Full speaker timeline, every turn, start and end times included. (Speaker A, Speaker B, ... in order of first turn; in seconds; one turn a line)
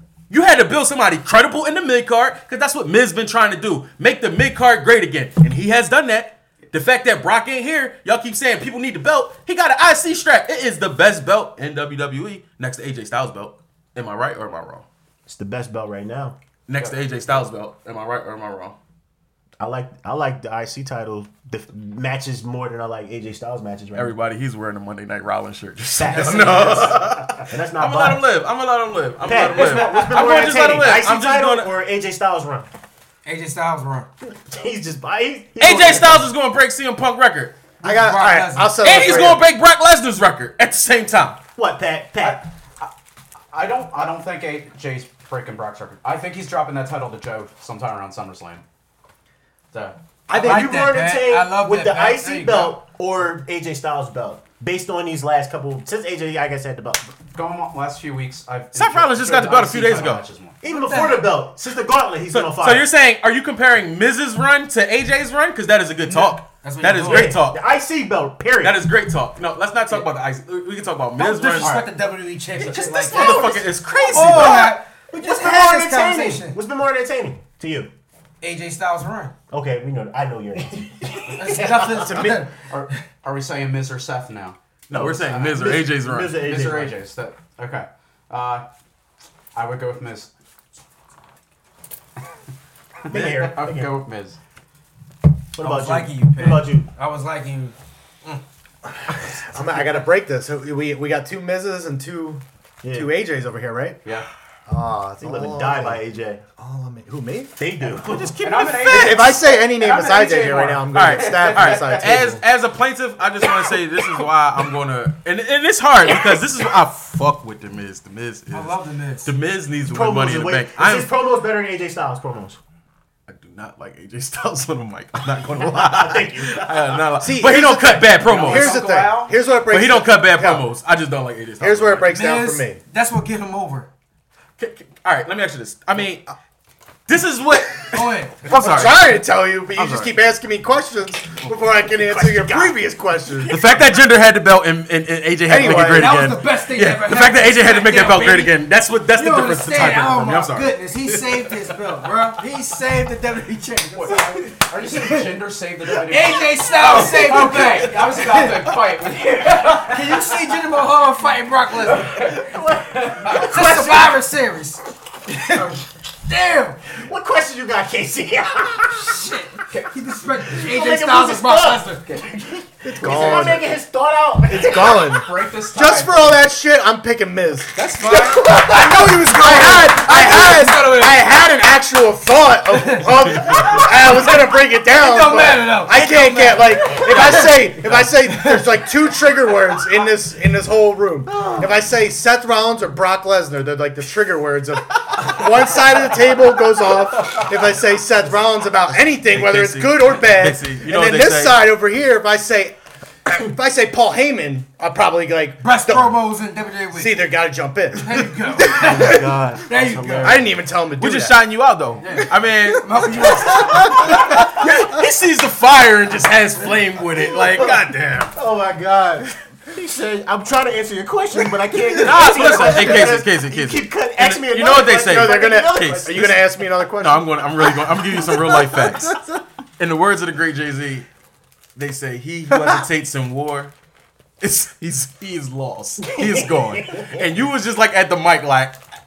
Speaker A: 0.3-14.8
Speaker B: 15.3-16.4
Speaker A: 16.7-18.8
Speaker B: 19.6-24.1
Speaker A: 23.9-31.7
Speaker B: 25.9-28.2
Speaker C: 26.1-26.9
Speaker B: 29.2-32.7
Speaker C: 29.8-30.2
Speaker C: 33.2-34.1
Speaker B: 34.2-36.3
Speaker A: 35.6-37.5
Speaker C: 37.8-39.2
Speaker D: 37.8-39.4
Speaker A: 38.8-41.4
Speaker B: 41.5-42.5
Speaker E: 42.2-42.9
Speaker E: 43.5-48.6
Speaker E: 49.7-50.0
Speaker D: 50.3-50.7
Speaker B: 50.3-57.1
Speaker C: 50.3-52.8
Speaker E: 57.3-60.6
Speaker A: 58.7-60.2
Speaker B: 60.6-62.9
Speaker C: 60.6-61.3
Speaker A: 62.3-67.6
Speaker C: 66.0-67.4
Speaker B: 67.0-68.8
Speaker A: 68.6-71.8
Speaker C: 71.2-76.6
Speaker E: 71.4-71.9
Speaker A: 72.6-74.8
Speaker B: 74.3-77.9
Speaker C: 78.4-79.3
Speaker B: 79.5-81.9
Speaker C: 81.2-83.0
Speaker D: 81.9-82.4
Speaker E: 82.5-85.7
Speaker A: 84.9-86.4
Speaker B: 85.0-87.0
Speaker E: 86.3-88.6
Speaker E: 89.5-90.3
Speaker E: 93.0-94.4
Speaker B: 93.1-94.0
Speaker B: 95.5-96.9
Speaker C: 95.6-97.7
Speaker D: 98.9-104.0
Speaker B: 102.8-103.1
Speaker D: 104.7-106.0
Speaker B: 105.2-106.4
Speaker D: 106.6-107.6
Speaker B: 107.6-108.3
Speaker A: 107.9-109.3
Speaker E: 108.1-112.1
Speaker D: 108.8-112.4
Speaker A: 110.9-121.1
Speaker C: 118.5-119.3
Speaker B: 119.9-122.6
Speaker A: 123.3-128.8
Speaker B: 125.4-127.0
Speaker D: 127.2-130.7
Speaker E: 128.2-129.3
Speaker A: 129.7-132.1
Speaker D: 131.6-132.8
Speaker C: 132.1-133.9
Speaker A: 134.6-136.3
Speaker A: 137.1-139.0
Speaker C: 137.9-138.5
Speaker D: 138.5-143.6
Speaker A: 139.8-140.1
Speaker B: 141.8-142.8
Speaker B: 143.3-143.8
Speaker A: 143.5-151.7
Speaker D: 145.4-146.2
Speaker C: 145.6-148.5
Speaker C: 149.1-155.3
Speaker E: 153.9-160.4
Speaker C: 155.9-158.7
Speaker A: 156.9-157.9
Speaker C: 159.5-162.5
Speaker E: 162.1-162.3
Speaker B: 162.2-164.2
Speaker E: 163.0-163.5
Speaker C: 163.2-166.8
Speaker B: 166.9-169.2
Speaker C: 168.9-172.2
Speaker B: 170.5-175.1
Speaker D: 172.8-173.7
Speaker D: 174.5-202.7
Speaker E: 174.5-176.4
Speaker C: 177.8-181.2
Speaker B: 178.1-179.5
Speaker C: 182.7-187.5
Speaker A: 187.1-187.7
Speaker C: 188.2-188.8
Speaker A: 198.9-201.6
Speaker D: 203.2-206.2
Speaker C: 205.6-207.3
Speaker D: 206.9-209.4
Speaker C: 207.9-210.4
Speaker B: 208.6-210.6
Speaker D: 210.2-211.4
Speaker A: 211.0-218.3
Speaker C: 212.0-214.2
Speaker D: 213.2-215.0
Speaker B: 217.2-226.3
Speaker A: 222.0-226.4
Speaker D: 222.3-223.1
Speaker D: 225.0-227.7
Speaker A: 227.0-231.1
Speaker A: 231.8-233.7
Speaker A: 234.4-238.8
Speaker B: 236.0-237.3